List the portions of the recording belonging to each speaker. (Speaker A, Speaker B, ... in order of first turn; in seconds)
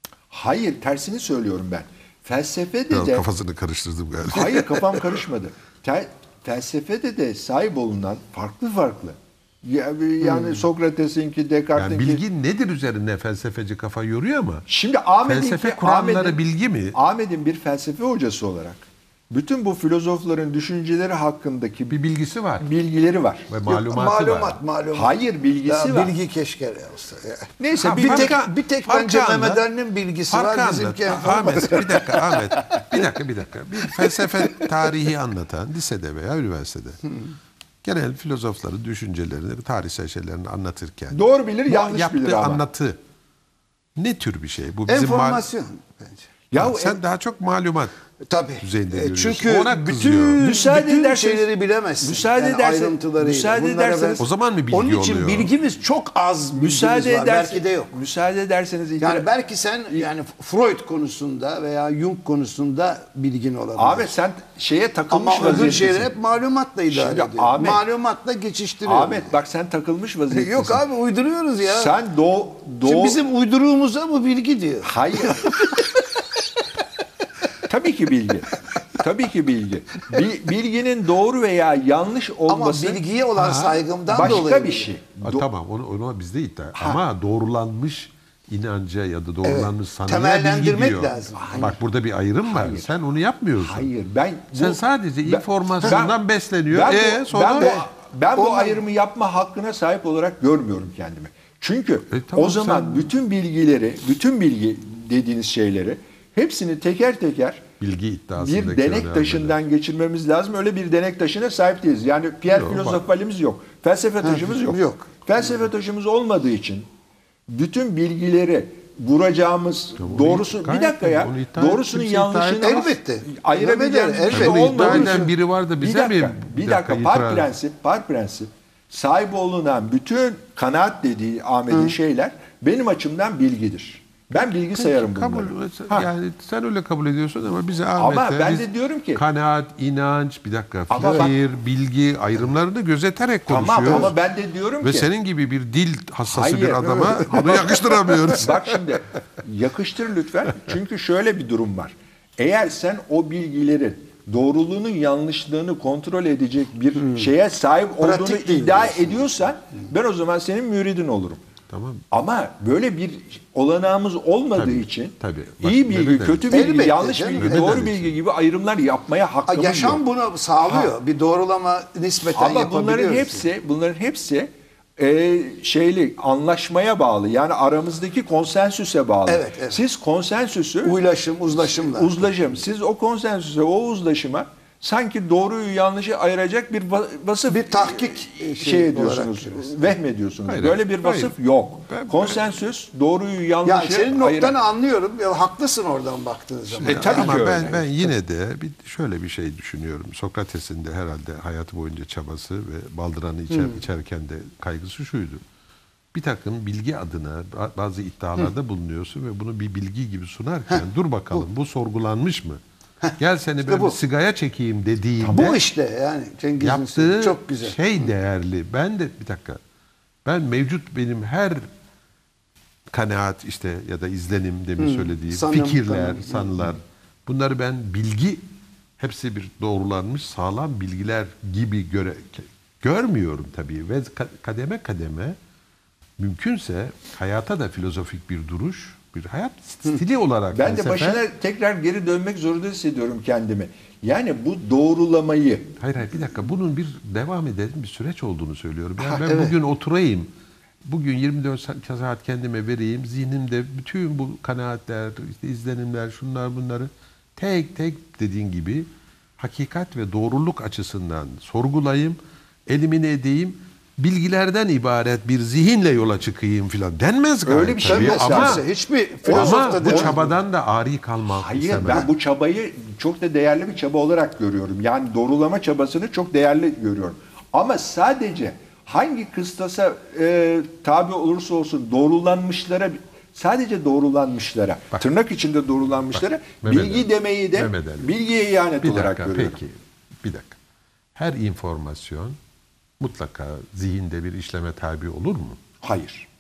Speaker A: 0.3-3.2, 4.3-12.2, 14.7-16.4, 16.9-22.0, 22.6-23.5, 24.9-26.1, 27.6-28.4, 41.1-42.6, 46.5-47.0, 50.2-51.5, 52.0-54.3, 56.5-59.3, 63.8-66.1, 66.9-67.8, 68.8-70.9, 71.6-73.2, 74.8-76.0, 77.7-85.5, 86.8-87.0, 91.3-91.8, 92.4-92.9, 93.6-96.2, 96.7-107.7, 108.4-116.9, 117.5-136.1, 138.0-139.2, 140.9-141.4, 143.5-145.1, 146.2-161.4, 162.1-170.0, 172.4-181.0, 181.6-194.6, 196.8-197.9, 215.2-215.5, 240.5-245.7, 267.5-268.7, 269.2-270.2, 271.3-289.6, 295.8-296.3
Speaker B: 2.9-5.0, 11.8-14.7, 15.2-17.0, 21.9-22.7, 23.5-24.6, 27.8-29.6, 30.3-37.0, 37.8-43.0, 44.0-45.5, 46.5-47.9, 48.6-50.4, 54.2-55.5, 83.4-83.7, 85.2-93.9, 94.5-97.8, 102.1-103.1, 107.8-109.6, 112.5-113.0, 120.0-122.9, 124.3-127.5, 134.7-144.2, 144.8-148.7, 161.7-162.0, 164.6-166.6, 167.4-168.1, 190.4-191.3, 191.9-192.4, 196.8-205.4, 206.1-212.6, 213.2-215.6, 216.6-219.6, 220.2-221.7, 222.9-228.4, 229.0-235.4, 236.2-241.2, 245.8-250.3, 250.8-268.6, 269.3-272.1, 286.1-288.1, 288.8-290.6, 291.1-292.4, 293.0-295.6
Speaker C: 23.7-25.1, 25.7-32.9, 33.9-34.7, 44.9-46.2, 48.3-58.0, 59.0-64.1, 65.1-69.3, 70.3-71.9, 72.8-75.8, 82.5-84.9, 89.4-91.7, 98.4-98.8, 114.2-115.1, 122.6-125.3, 131.7-132.0, 157.0-157.3, 158.0-159.3, 166.5-167.8, 169.5-173.5, 179.3-179.8, 180.8-182.3, 187.5-189.8, 193.7-197.5, 203.5-203.8, 213.7-213.9, 215.3-217.8, 224.8-226.8, 249.0-249.5, 267.9-270.3